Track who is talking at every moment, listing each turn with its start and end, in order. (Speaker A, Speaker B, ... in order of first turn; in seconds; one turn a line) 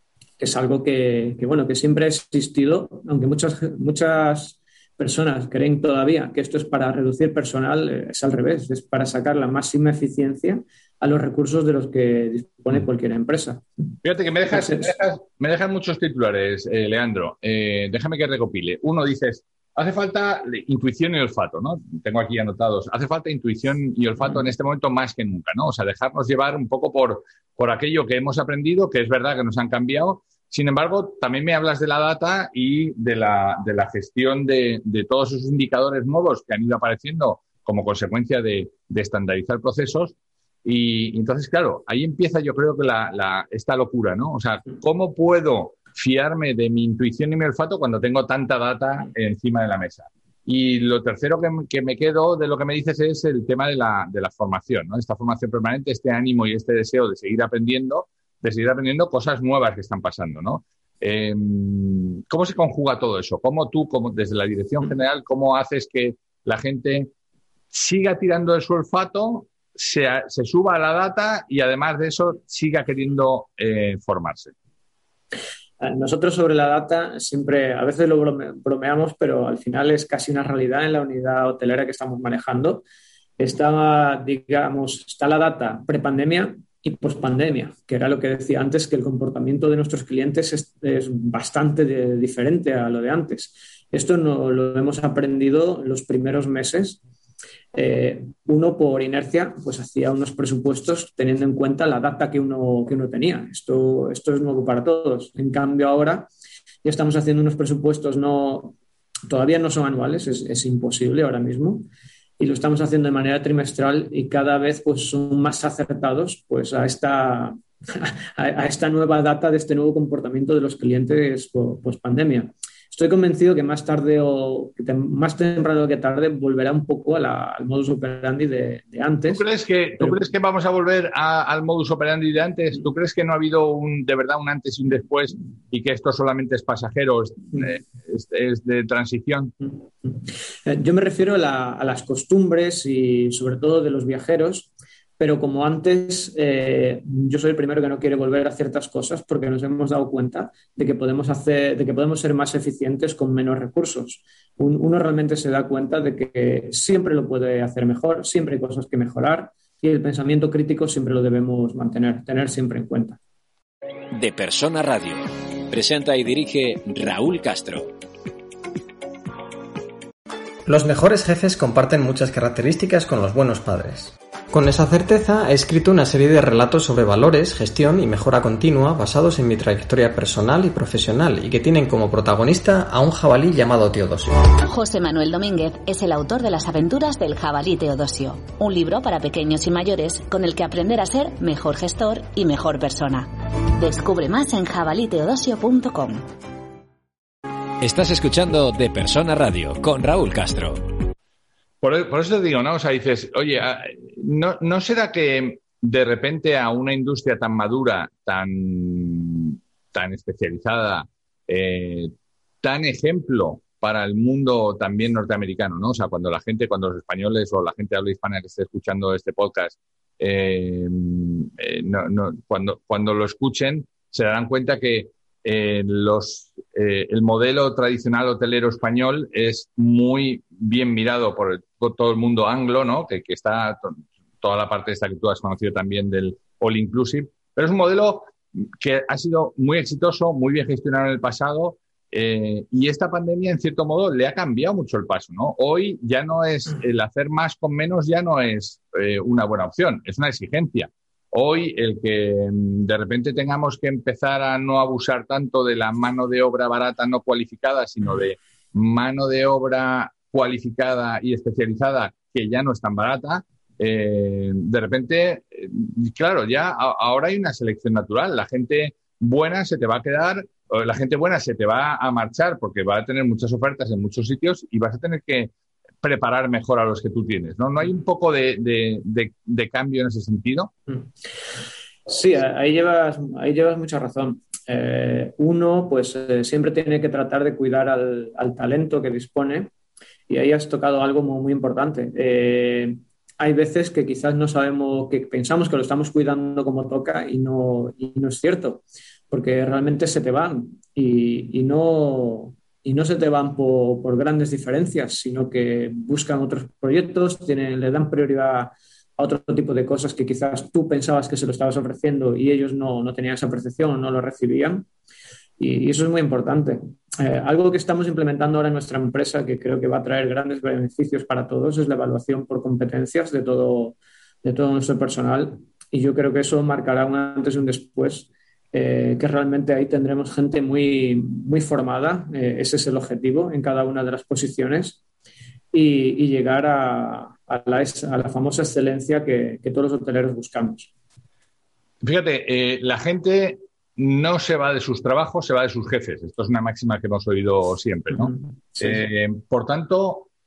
Speaker A: 0.4-13.7
Speaker B: 14.0-67.1
Speaker A: 14.5-14.9
Speaker B: 67.7-74.5
Speaker A: 75.8-82.8
Speaker A: 83.4-97.0
Speaker A: 97.7-106.3
Speaker A: 106.8-108.8
Speaker A: 109.3-111.9
Speaker A: 112.4-129.4
Speaker B: 129.3-139.5
Speaker A: 140.7-163.2
Speaker C: 164.1-167.9
Speaker D: 170.7-184.4
Speaker E: 184.6-196.2
Speaker C: 197.8-200.8
Speaker B: 201.8-280.7
Speaker A: 282.1-289.7
Speaker A: 290.3-314.9
Speaker A: 315.6-335.0
Speaker A: 335.7-340.9
Speaker B: 342.0-350.3
Speaker A: 348.2-349.0